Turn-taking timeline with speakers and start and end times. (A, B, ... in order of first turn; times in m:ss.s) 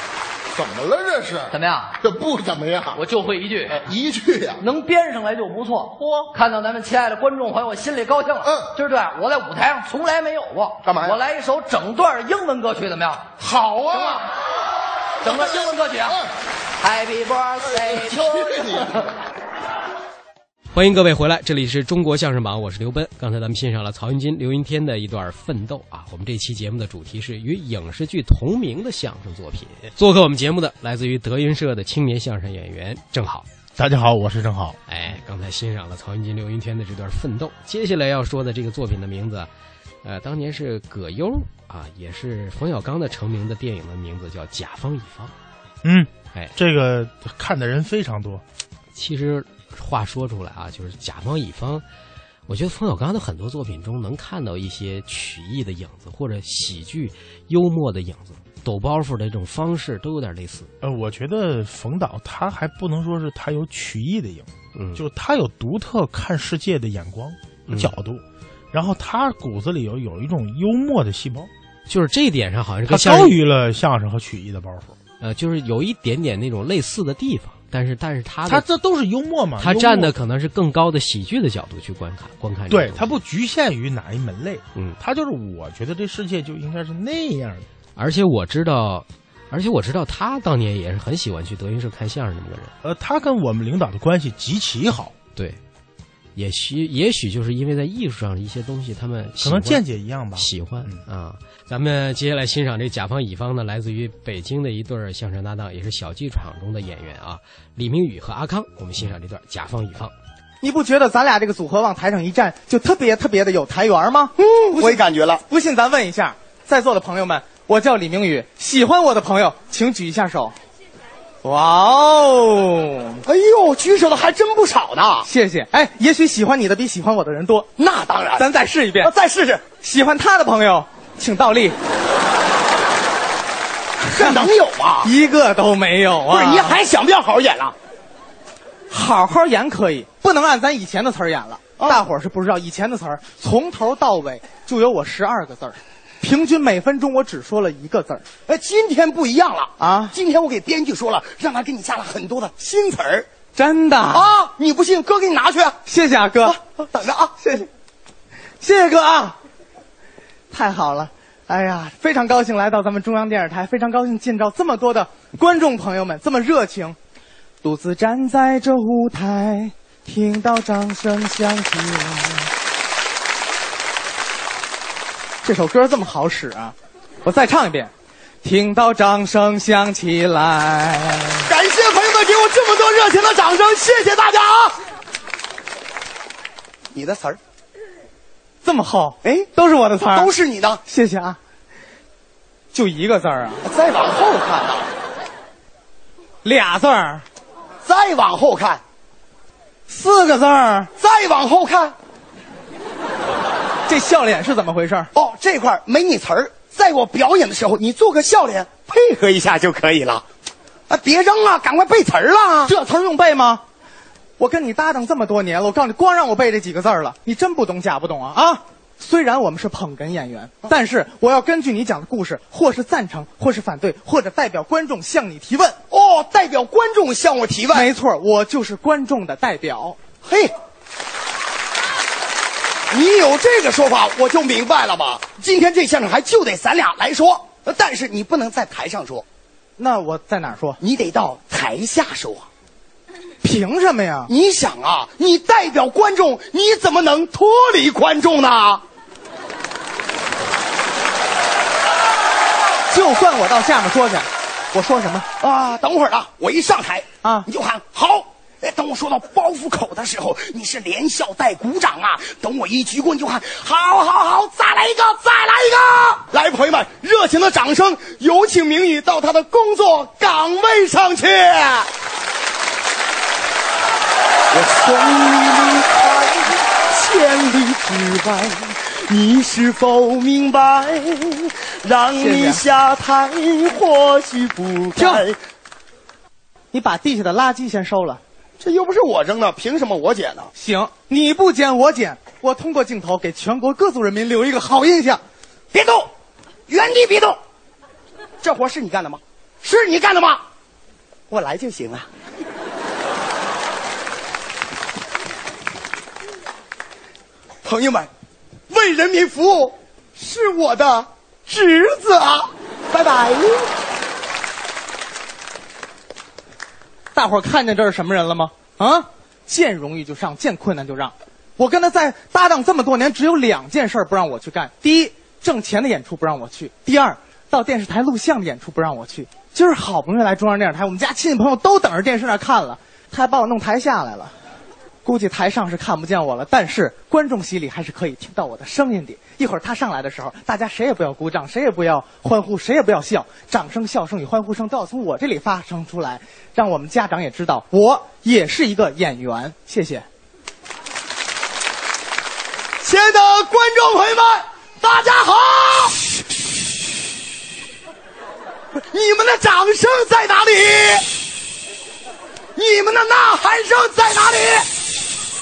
0:00.5-0:03.0 A
0:01.5-0:02.0 B
0:02.9-0:03.8 B
0:03.7-0:04.6 A
0:04.6-0:13.3 B
0:06.0-0:06.3 A
0:08.4-0:08.7 A
0:10.8-0:11.2 A
0:13.4-0:14.3 A
0:13.9-0:14.3 B
0:15.2-0:16.2 B
0:15.2-0:16.3 A
0:16.8-0:19.1 B
0:17.7-0:19.1 A
0:20.7-0:33.4 C
0:33.8-0:34.8 D
0:34.9-0:39.5 C
0:40.0-0:45.3 C
0:45.8-0:48.4 D
0:48.9-0:51.8 C
0:52.5-1:00.7 C
1:00.8-1:11.5 D
1:04.7-1:05.0 C
1:07.7-1:07.9 C
1:11.9-1:13.4 C
1:12.9-1:15.0 D
1:15.2-1:18.6 C
1:18.4-1:20.1 D
1:19.6-1:23.1 C
1:22.7-1:27.7 D
1:28.0-1:32.7 C
1:32.8-1:35.1 D
1:36.4-1:50.1 C
1:39.4-1:41.0 D
1:50.6-2:00.5 E
1:54.4-1:55.4 F
2:01.4-2:03.2 E
2:03.2-2:05.3 F
2:05.2-2:07.7 E
2:07.8-2:08.5 F
2:08.4-2:09.1 E
2:09.0-2:09.7 F
2:09.7-2:11.8 E
2:14.1-2:14.5 E
2:14.1-2:15.1 F
2:15.0-2:16.8 E
2:16.3-2:17.7 F
2:18.9-2:28.2 E
2:21.8-2:22.0 F
2:28.5-2:33.3 F
2:29.8-2:30.2 E
2:33.5-2:34.3 E
2:34.1-2:35.8 F
2:35.8-2:36.6 E
2:36.4-2:37.6 F
2:37.4-2:37.6 E
2:38.6-2:39.4 E
2:40.5-2:47.0 E
2:47.6-2:52.5 E
2:55.4-2:57.9 E
2:58.4-3:01.5 E
3:01.4-3:04.8 F
3:06.9-3:07.4 F
3:08.6-3:10.3 E
3:09.2-3:09.5 F
3:10.0-3:10.8 F
3:10.8-3:11.4 E
3:12.7-3:13.6 E
3:13.6-3:14.9 F
3:16.4-3:17.2 E
3:17.8-3:18.8 F
3:19.9-3:20.9 E
3:21.0-3:21.9 F
3:23.9-3:25.1 E
3:25.1-3:30.2 F
3:30.9-3:32.7 F
3:32.6-3:33.6 E
3:34.4-3:45.8 E
3:45.9-3:47.9 F
3:47.7-3:50.0 E
3:50.2-3:50.5 F
3:52.9-3:59.2 F
3:59.8-4:00.8 E
4:00.8-4:02.5 F
4:03.4-4:04.3 E
4:04.3-4:08.8 F
4:12.9-4:15.2 E
4:15.4-4:31.9 F
4:17.2-4:17.5 E
4:34.5-4:45.4 F
4:42.2-4:42.6 E
4:45.0-4:45.2 E
4:46.7-4:48.2 E
4:48.6-4:50.5 F
4:50.5-4:55.2 E
4:55.7-4:56.1 F
4:56.7-4:57.4 F
4:58.4-5:00.4 F
5:01.3-5:02.1 F
5:07.6-5:08.1 F
5:08.7-5:13.7 F
5:17.1-5:34.3 E
5:35.0-5:50.0 E
5:52.8-5:56.0 F
5:58.8-6:01.0 F
6:02.6-6:04.7 F